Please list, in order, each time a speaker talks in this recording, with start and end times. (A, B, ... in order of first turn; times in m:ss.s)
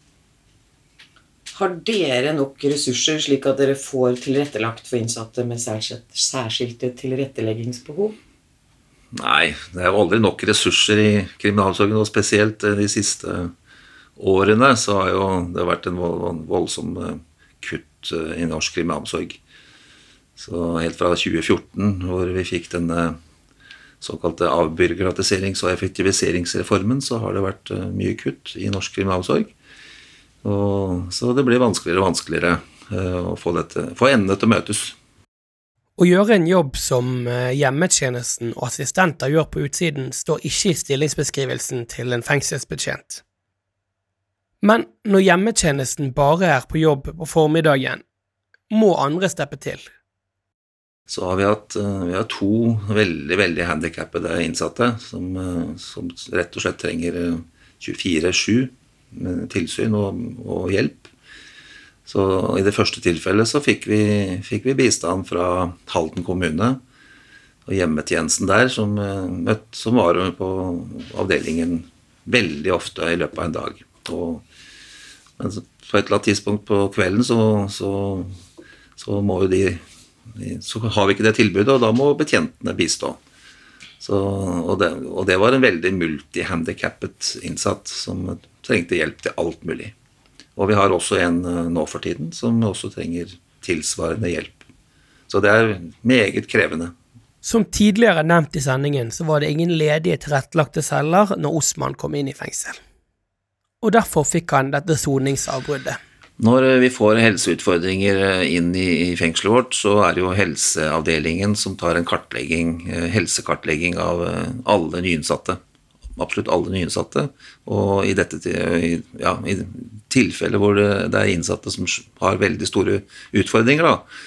0:01.5-0:08.2 A
0:09.1-0:13.5 B
0:14.2-0:19.4 B
0:20.4-0:23.2 B
0:24.0-0:29.5 B
0:30.4-0:35.0 B
0:36.0-0:43.2 C
0:44.6-0:48.0 C
0:48.7-0:49.9 C
0:51.1-1:01.1 B
1:02.0-1:06.8 B
1:07.6-1:14.4 B
1:15.4-1:18.4 B
1:19.0-1:19.8 B
1:20.3-1:23.2 B
1:24.0-1:29.9 B
1:30.6-1:34.6 B
1:35.3-1:36.9 B
1:37.4-1:42.8 C
1:43.8-1:46.0 C
1:46.4-1:55.6 B
1:56.2-2:04.1 B